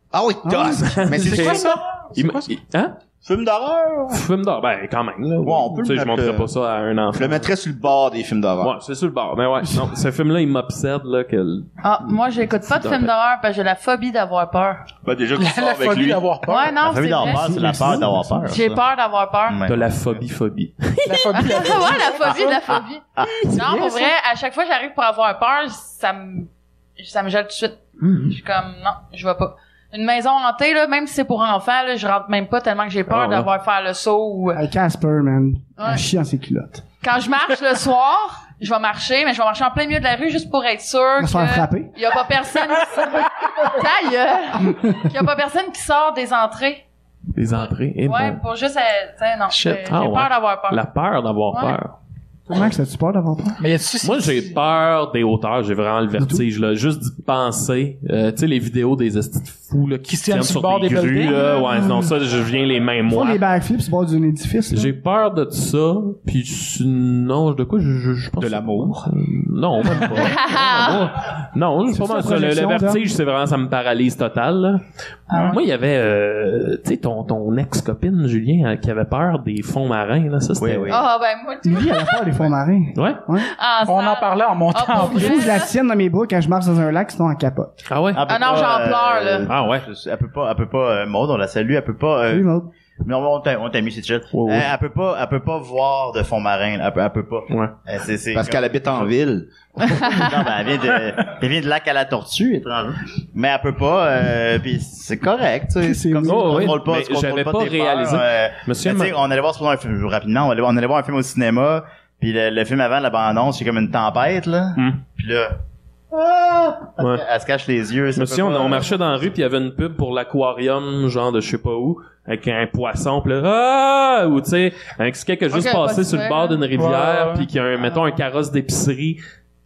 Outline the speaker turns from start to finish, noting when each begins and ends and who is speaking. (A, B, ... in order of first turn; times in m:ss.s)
0:00.1-0:02.1 A
0:00.4-0:01.1 B
0:00.6-0:03.0 C
0:01.2-0:02.5 D
0:03.2-0:04.2 A
0:04.1-0:07.5 C
0:05.4-0:06.5 A
0:07.1-0:08.7 A
0:08.6-0:13.1 C
0:11.8-0:14.8 E
0:15.0-0:16.2 A
0:15.4-0:16.8 D
0:16.5-0:17.5 E
0:16.8-0:18.8 F
0:17.2-0:18.5 B
0:18.5-0:19.6 E
0:19.5-0:20.1 F
0:19.7-0:22.4 C
0:21.0-0:22.7 D
0:21.2-0:34.6 E
0:23.5-0:24.1 B
0:28.0-0:28.4 C
0:33.1-0:33.5 C
0:34.5-0:36.8 B
0:35.8-0:36.0 E
0:37.0-0:46.8 E
0:41.2-0:42.0 B
0:44.6-0:45.1 B
0:47.3-0:48.4 C
0:47.5-0:50.8 E
0:49.5-0:49.9 D
0:49.9-0:52.0 C
0:51.5-0:51.8 E
0:52.5-0:53.6 B
0:53.6-0:54.5 D
0:54.0-1:03.4 C
0:56.2-0:56.4 B
1:00.1-1:01.7 D
1:01.7-1:02.1 B
1:03.1-1:04.9 B
1:04.7-1:14.8 C
1:08.4-1:09.0 A
1:10.2-1:11.1 E
1:11.9-1:13.1 B
1:15.3-1:15.6 D
1:15.4-1:20.9 C
1:20.6-1:21.1 F
1:20.9-1:22.4 E
1:21.6-1:23.5 B
1:23.0-1:23.2 C
1:23.4-1:25.7 E
1:23.8-1:25.5 D
1:25.0-1:27.8 B
1:27.9-1:28.3 C
1:28.2-1:39.1 F
1:28.3-1:29.5 E
1:29.5-1:29.9 C
1:32.3-1:32.7 B
1:34.3-1:34.7 C
1:37.5-1:37.7 C
1:38.3-1:39.8 A
1:39.8-1:55.6 F
1:45.8-1:46.8 B
1:46.2-1:49.2 C
1:54.8-1:55.0 C
1:56.1-1:59.2 F
1:57.0-1:57.2 C
1:58.2-2:09.2 C
2:05.5-2:06.6 E
2:06.7-2:07.5 D